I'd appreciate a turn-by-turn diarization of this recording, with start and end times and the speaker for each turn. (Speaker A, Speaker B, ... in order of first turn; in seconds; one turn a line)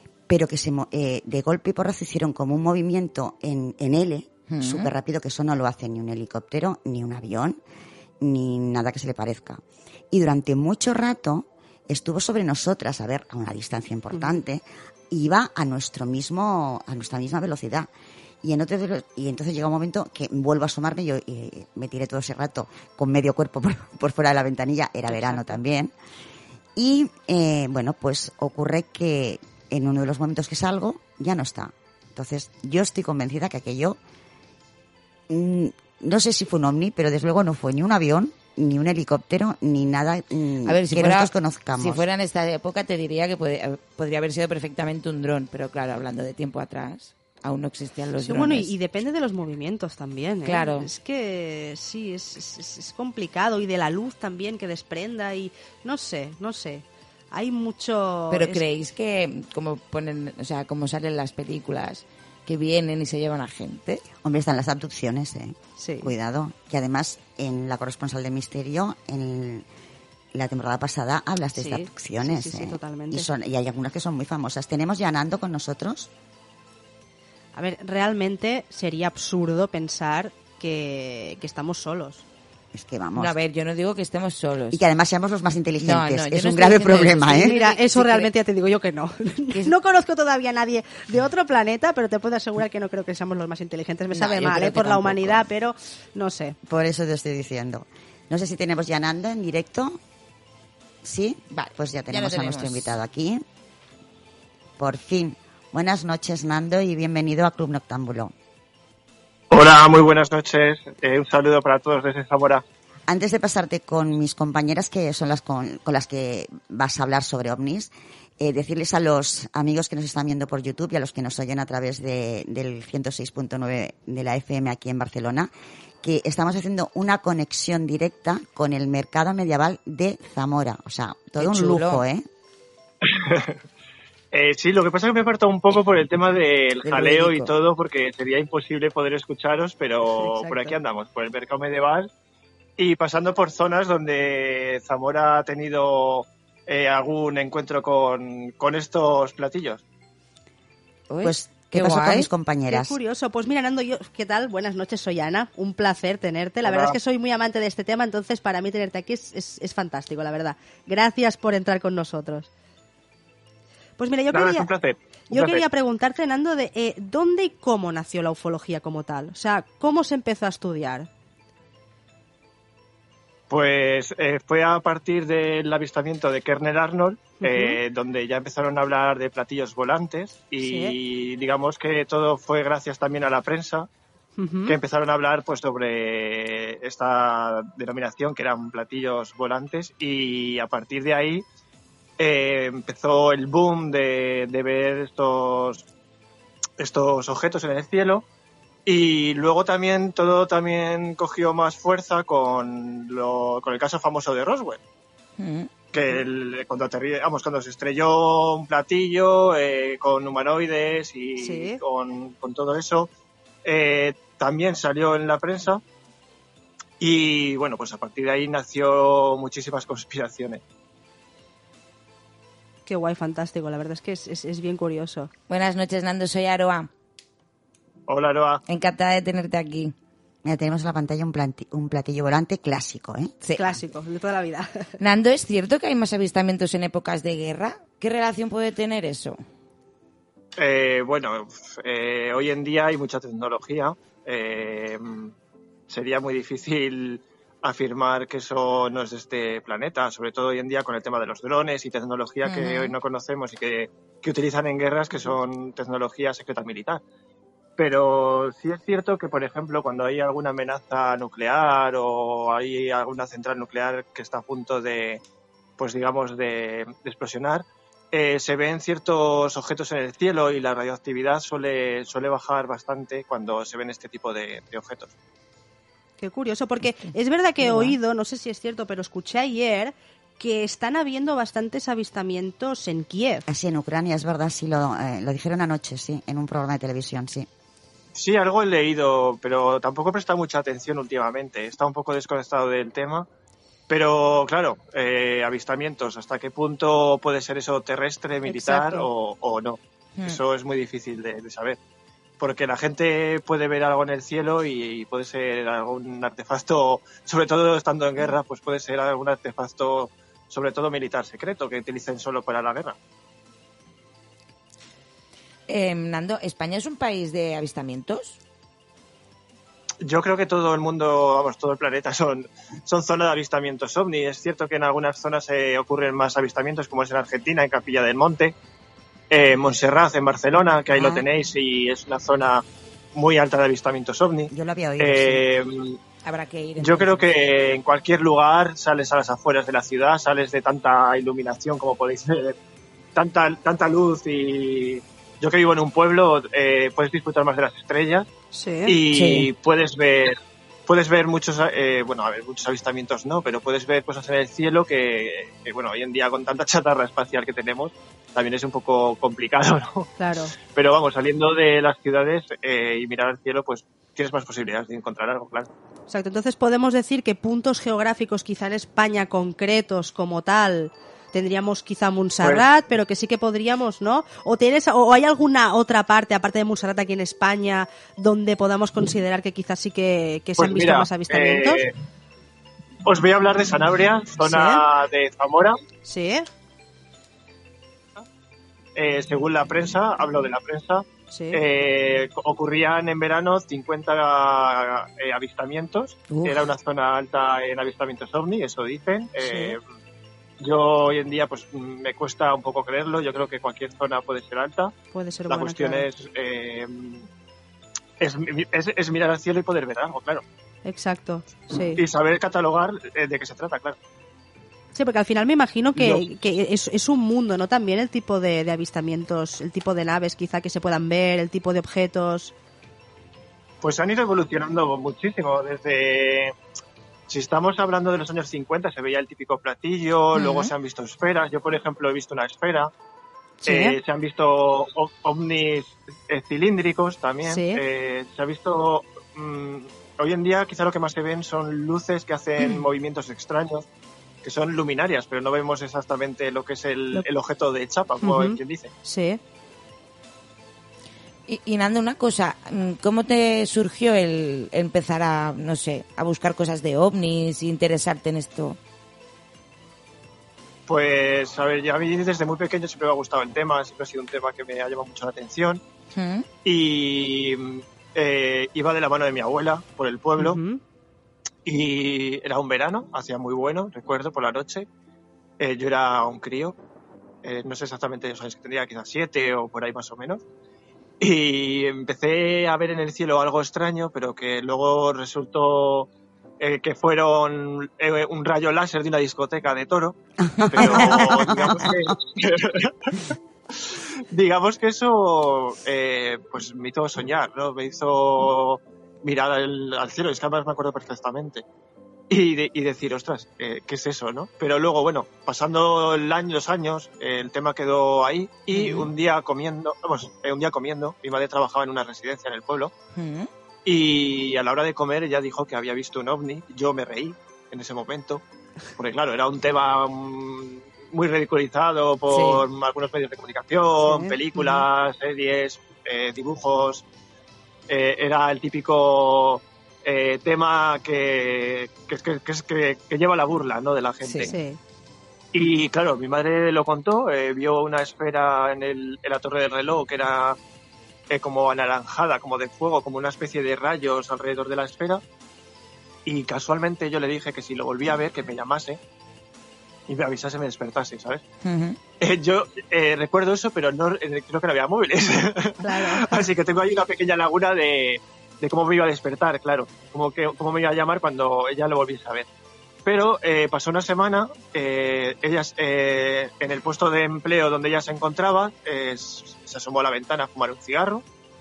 Speaker A: 0.3-7.6
Speaker B: 4.5-4.9
Speaker A: 8.2-17.9
Speaker C: 14.1-14.4
Speaker A: 18.4-25.9
Speaker A: 26.8-34.0
Speaker A: 35.3-42.0
Speaker B: 40.6-48.7
Speaker C: 48.2-58.6
Speaker B: 50.4-50.9
Speaker B: 58.3-64.0
Speaker A: 64.2-69.7
Speaker C: 65.8-66.1
Speaker A: 70.3-76.1
Speaker C: 71.5-73.3
Speaker C: 77.5-82.2
Speaker A: 82.7-83.3
Speaker B: 83.1-84.8
Speaker A: 84.7-87.5
Speaker B: 85.8-88.3
Speaker C: 87.4-96.5
Speaker B: 94.1-95.4
Speaker A: 96.7-100.0
Speaker A: 101.0-103.4
Speaker B: 101.5-103.0
Speaker A: 104.8-108.3
Speaker D: 109.5-112.6
Speaker A: 113.1-125.5
Speaker A: 126.0-132.2
Speaker B: 131.4-132.0
Speaker D: 133.0-133.6
Speaker D: 134.3-142.1
Speaker B: 136.8-137.5
Speaker C: 140.1-140.7
Speaker D: 142.8-149.8
Speaker B: 151.1-152.3
Speaker A: 151.2-152.9
Speaker C: 152.7-162.5
Speaker D: 156.6-156.9
Speaker C: 164.0-164.7
Speaker D: 164.3-165.6
Speaker C: 165.3-171.1
Speaker D: 173.5-183.9
Speaker C: 177.4-177.8
Speaker C: 180.6-180.9
Speaker C: 184.3-184.8
Speaker D: 184.7-191.4
Speaker D: 192.2-195.8
Speaker D: 196.8-198.2
Speaker D: 198.8-204.8
Speaker B: 205.4-205.7
Speaker D: 205.9-213.1
Speaker C: 211.3-211.8
Speaker D: 213.6-215.8
Speaker D: 217.0-220.6
Speaker C: 222.8-225.3
Speaker B: 225.5-226.9
Speaker D: 228.1-228.6
Speaker B: 228.7-229.9
Speaker A: 230.4-233.3
Speaker C: 233.5-234.9
Speaker B: 235.0-239.4
Speaker D: 240.6-245.3
Speaker D: 245.9-257.0
Speaker B: 252.4-252.9
Speaker D: 257.8-265.2
Speaker D: 265.8-275.1
Speaker C: 276.2-283.4
Speaker B: 277.6-277.9
Speaker A: 283.5-287.5
Speaker D: 288.1-293.3
Speaker D: 293.9-301.8
Speaker B: 298.5-298.9
Speaker D: 302.4-312.9
Speaker B: 315.7-318.4
Speaker D: 320.0-328.5
Speaker D: 329.3-332.6
Speaker A: 330.9-331.2
Speaker D: 333.1-336.0
Speaker A: 334.5-335.4
Speaker B: 336.2-337.3
Speaker D: 336.8-342.6
Speaker D: 343.1-348.3
Speaker C: 348.5-349.0
Speaker D: 348.9-350.3
Speaker B: 349.1-349.4
Speaker D: 350.9-360.1
Speaker C: 360.2-360.5
Speaker D: 360.7-365.7
Speaker C: 366.1-381.8
Speaker D: 380.6-381.9
Speaker D: 383.1-385.8
Speaker C: 384.4-384.8
Speaker C: 386.0-386.4
Speaker D: 388.9-399.8
Speaker C: 391.3-391.6
Speaker B: 396.3-396.7
Speaker C: 399.4-399.8
Speaker D: 400.6-404.9
Speaker C: 405.1-406.1
Speaker D: 405.5-407.2
Speaker D: 408.2-410.4
Speaker C: 410.8-412.0
Speaker D: 411.9-414.0
Speaker C: 414.9-422.5
Speaker D: 415.9-416.2
Speaker D: 423.8-426.5
Speaker D: 427.3-432.9
Speaker C: 433.6-434.0
Speaker D: 433.7-443.9
Speaker C: 437.4-437.8
Speaker D: 444.4-448.9
Speaker C: 448.2-449.4
Speaker B: 451.5-458.8
Speaker D: 460.9-465.8
Speaker B: 466.1-466.4
Speaker D: 466.6-470.6
Speaker C: 470.4-470.8
Speaker D: 471.6-474.9
Speaker D: 475.6-476.8
Speaker D: 477.4-480.4
Speaker D: 481.2-486.1
Speaker D: 486.6-493.3
Speaker A: 490.5-491.9
Speaker D: 493.9-501.6
Speaker D: 502.3-512.9
Speaker B: 513.1-513.5
Speaker D: 513.8-518.4
Speaker D: 519.0-527.0
Speaker B: 522.3-522.6
Speaker C: 524.0-524.8
Speaker D: 527.9-534.5
Speaker B: 534.2-534.5
Speaker C: 534.4-534.8
Speaker D: 535.5-540.6
Speaker D: 541.3-545.2
Speaker D: 546.2-549.0
Speaker D: 550.1-551.4
Speaker B: 551.6-552.0
Speaker D: 552.2-562.5
Speaker C: 555.8-556.3
Speaker D: 563.0-571.2